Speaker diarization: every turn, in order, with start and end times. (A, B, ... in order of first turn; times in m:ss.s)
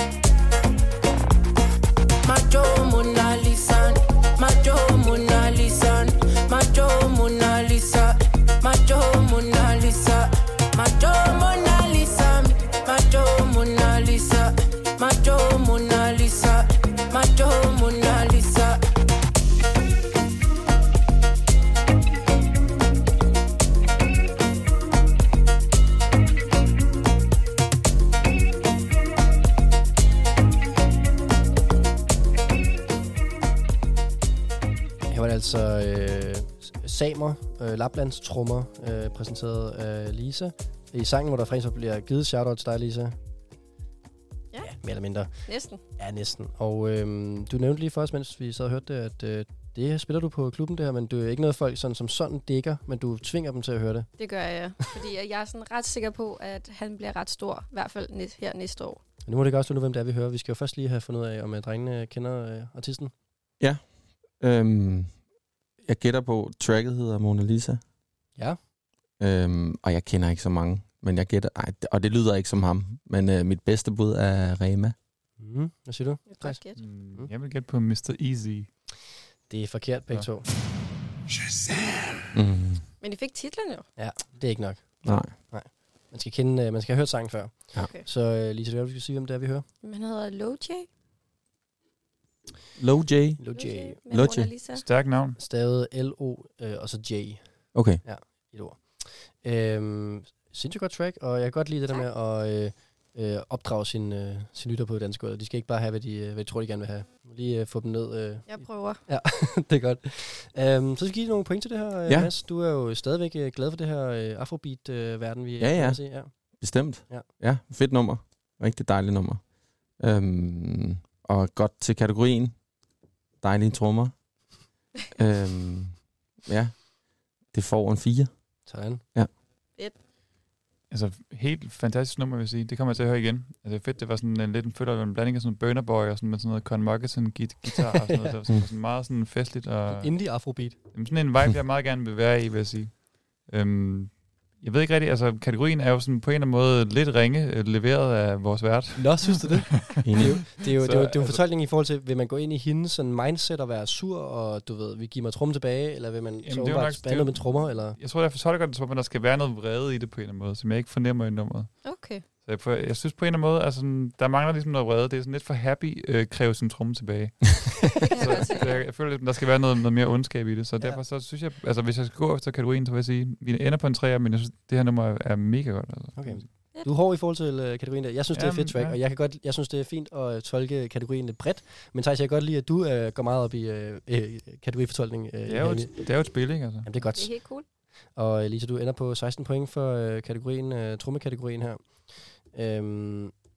0:02.2-0:18.8 A
0:35.1-0:43.2 B
0:44.6-0:45.3 B
0:45.4-0:45.8 C
0:46.0-0:54.1 B
0:54.2-0:59.0 C
0:59.2-1:03.1 B
1:04.4-1:05.1 D
1:05.9-1:07.8 D
1:09.2-1:15.0 D
1:15.4-1:16.6 B
1:16.3-1:16.8 C
1:16.8-1:18.7 E
1:19.5-1:20.5 B
1:22.3-1:22.8 D
1:23.0-1:23.9 C
1:24.0-1:29.7 B
1:25.0-1:25.3 D
1:27.8-1:28.0 C
1:29.8-1:30.9 C
1:32.8-1:33.4 D
1:33.4-1:34.0 B
1:33.5-1:34.8 C
1:34.1-1:34.5 D
1:34.7-1:35.4 E
1:35.4-1:56.3 B
1:37.7-1:38.0 D
1:48.5-1:49.0 C
1:55.6-1:56.0 D
1:56.6-1:59.4 D
2:00.0-2:02.6 D
2:03.4-2:04.2 D
2:05.2-2:06.8 D
2:07.5-2:08.3 D
2:08.7-2:09.0 B
2:10.9-2:30.0 E
2:17.7-2:18.4 B
2:19.9-2:20.8 B
2:29.0-2:38.0 B
2:30.0-2:30.6 D
2:30.6-2:31.4 E
2:36.4-2:56.5 E
2:41.8-2:42.2 C
2:48.1-2:48.9 C
2:56.2-3:07.4 B
2:58.3-2:59.0 E
3:05.5-3:06.9 E
3:07.1-3:07.7 C
3:08.2-3:13.3 B